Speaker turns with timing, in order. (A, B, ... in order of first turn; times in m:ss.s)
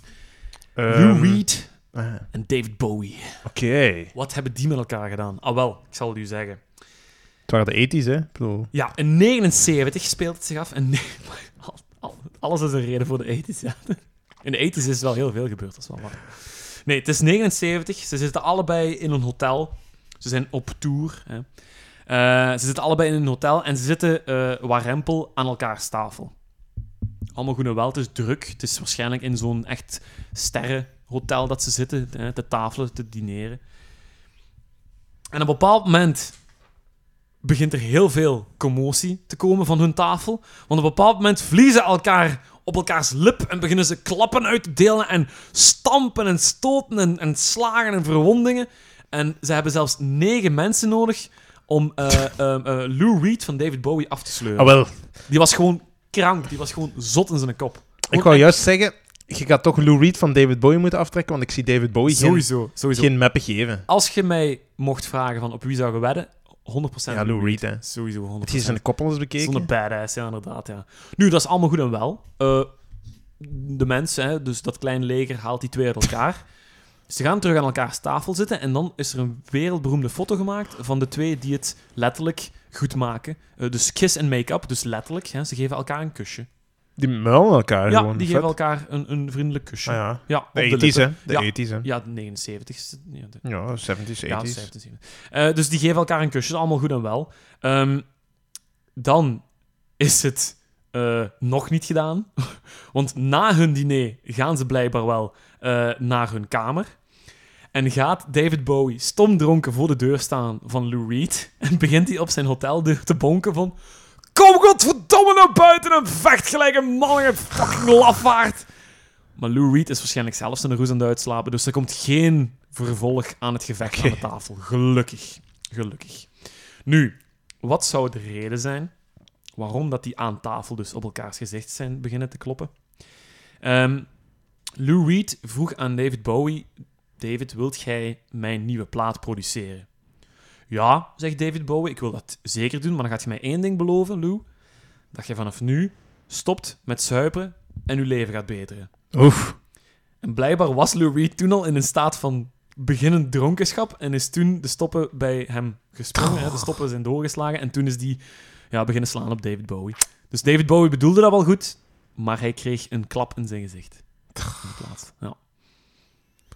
0:00.8-0:02.2 A
0:00.9-0:03.5 B
0:03.4-0:04.1 A
0:04.1-0:06.6 B
0:07.5-0:08.7 A
0:08.7-0:26.4 B
0:27.3-0:33.6 B
0:35.3-0:36.4 B
0:37.4-0:58.6 B
0:54.5-0:55.2 A
0:58.1-1:03.8 A
1:02.1-1:12.8 B
1:07.1-1:09.7 A
1:13.4-1:26.5 B
1:27.0-1:28.6 A
1:27.9-1:38.2 B
1:29.8-1:31.9 A
1:33.4-1:34.7 A
1:39.0-1:47.1 B
1:47.7-1:58.7 B
1:59.3-2:14.2 B
2:03.8-2:04.2 A
2:14.8-2:19.9 B
2:20.7-2:24.5 B
2:25.1-2:28.9 B
2:29.1-2:29.6 A
2:30.2-2:46.0 B
2:44.4-2:44.6 A